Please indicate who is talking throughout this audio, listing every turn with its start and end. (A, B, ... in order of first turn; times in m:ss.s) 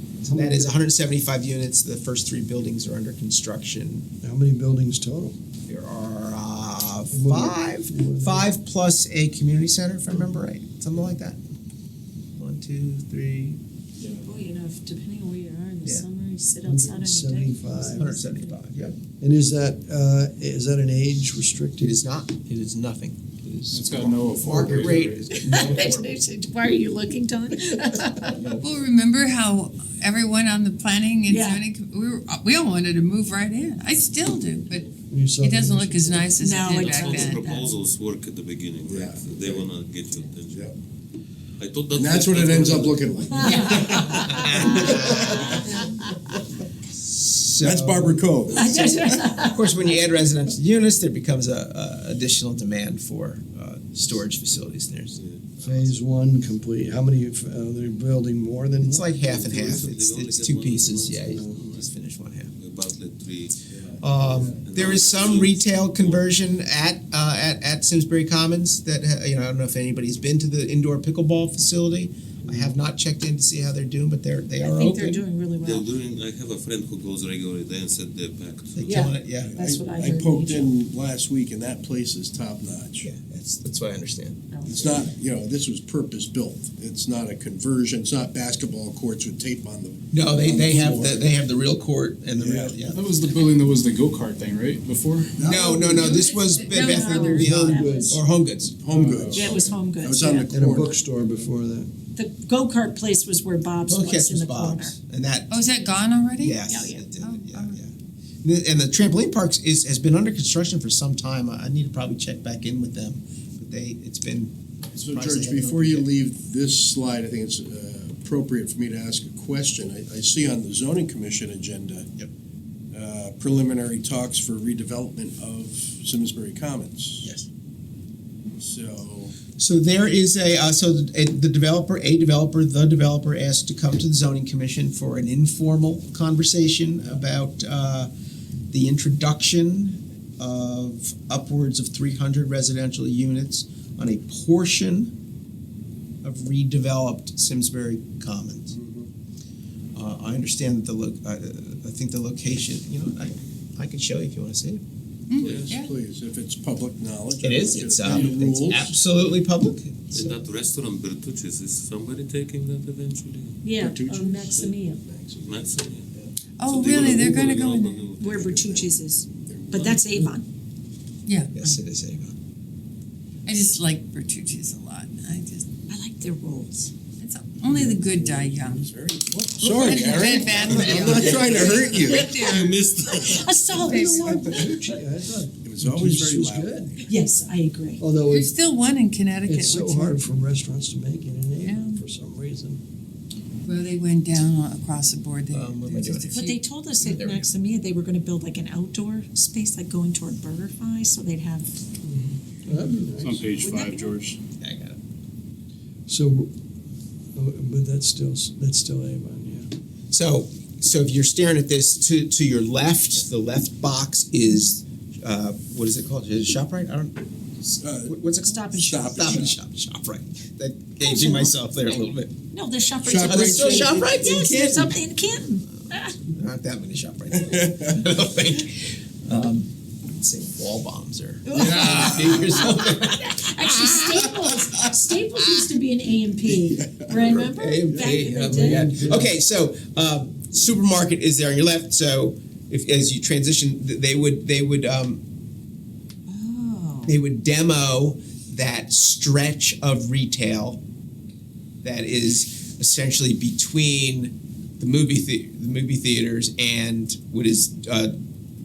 0:00.2-0:04.1 A
0:00.2-0:00.7 B
0:04.2-0:05.4 B
0:05.7-0:11.4 A
0:07.1-0:08.5 B
0:12.4-0:13.6 A
0:14.2-0:18.5 C
0:16.6-0:18.1 B
0:18.0-0:19.0 A
0:19.2-0:22.0 B
0:21.8-0:26.1 A
0:23.7-0:25.9 D
0:25.3-0:28.4 C
0:28.2-0:28.6 A
0:28.6-0:37.6 E
0:31.3-0:31.6 C
0:35.1-0:36.2 B
0:36.4-0:37.7 C
0:36.7-0:40.7 F
0:38.9-0:39.7 G
0:41.6-0:43.5 F
0:41.9-0:45.7 G
0:43.3-0:46.1 C
0:43.4-0:44.0 E
0:44.1-0:45.6 A
0:47.0-0:48.8 A
0:47.6-0:49.2 G
0:48.5-0:49.9 C
0:49.4-0:56.0 A
0:55.1-0:55.5 F
0:55.6-0:59.1 B
0:58.8-1:02.5 A
0:59.2-1:01.9 F
1:01.2-1:01.7 B
1:02.5-1:03.8 F
1:03.7-1:04.6 G
1:04.0-1:15.2 A
1:04.3-1:06.3 F
1:12.4-1:12.8 B
1:14.6-1:15.9 C
1:15.6-1:19.1 F
1:18.7-1:19.6 A
1:18.8-1:20.7 C
1:19.4-1:23.1 G
1:23.0-1:24.4 A
1:24.5-1:25.0 C
1:24.6-1:31.2 G
1:30.1-1:33.1 A
1:32.3-1:32.8 G
1:32.9-1:35.4 D
1:35.4-1:38.8 A
1:35.4-1:36.1 B
1:35.4-1:36.0 G
1:35.9-1:37.6 E
1:36.6-1:38.2 C
1:37.3-1:38.2 B
1:38.8-1:41.0 G
1:38.9-1:39.7 D
1:39.3-1:40.5 C
1:39.4-1:39.7 A
1:40.5-1:41.9 B
1:42.1-1:44.9 C
1:43.9-1:45.6 A
1:45.5-1:46.6 E
1:46.4-1:47.9 A
1:46.7-1:47.1 C
1:47.2-1:47.8 E
1:48.4-1:56.1 A
1:54.9-2:02.1 G
2:02.9-2:07.3 G
2:08.6-2:09.3 G
2:09.5-2:18.1 A
2:18.7-2:25.1 A
2:26.2-2:28.7 A
2:28.7-2:29.1 G
2:29.9-2:34.8 A
2:35.3-2:35.9 E
2:35.4-2:39.0 G
2:35.4-2:35.7 F
2:37.4-2:40.4 A
2:40.1-2:43.6 F
2:43.6-2:45.0 C
2:43.7-2:46.3 G
2:45.4-2:46.1 F
2:46.6-2:48.0 E
2:46.6-2:48.6 F
2:46.8-2:47.5 G
2:48.2-2:50.5 C
2:48.2-2:50.1 G
2:51.2-2:51.8 E
2:51.5-2:52.3 A
2:53.4-2:55.6 E
2:55.9-2:56.9 C
2:57.2-2:58.9 E
2:57.8-3:02.4 G
2:59.6-3:02.8 E
3:00.7-3:03.7 F
3:01.1-3:02.2 C
3:03.0-3:05.0 C
3:03.8-3:06.9 B
3:03.8-3:04.6 E
3:05.6-3:07.0 G
3:07.1-3:08.0 C
3:08.0-3:08.5 B
3:08.3-3:10.2 E
3:09.4-3:12.8 B
3:11.6-3:12.0 E
3:13.6-3:16.6 E
3:15.5-3:16.4 A
3:16.3-3:21.7 C
3:17.0-3:17.5 A
3:22.0-3:23.4 B
3:23.2-3:24.4 D
3:23.6-3:24.1 C
3:24.6-3:25.0 A
3:26.1-3:26.5 B
3:27.3-3:29.7 B
3:30.1-3:42.3 A
3:37.8-3:38.2 G
3:38.4-3:39.5 C
3:38.9-3:39.6 G
3:41.0-3:46.2 C
3:43.0-3:44.3 G
3:43.2-3:45.0 A
3:46.2-3:54.6 A
3:47.3-3:48.0 G
3:51.4-3:58.9 C
3:51.5-3:52.6 G
3:56.5-3:57.1 G
3:57.1-4:05.2 A
3:58.3-3:59.3 B
4:06.3-4:07.1 C
4:07.0-4:10.8 A
4:11.8-4:18.1 A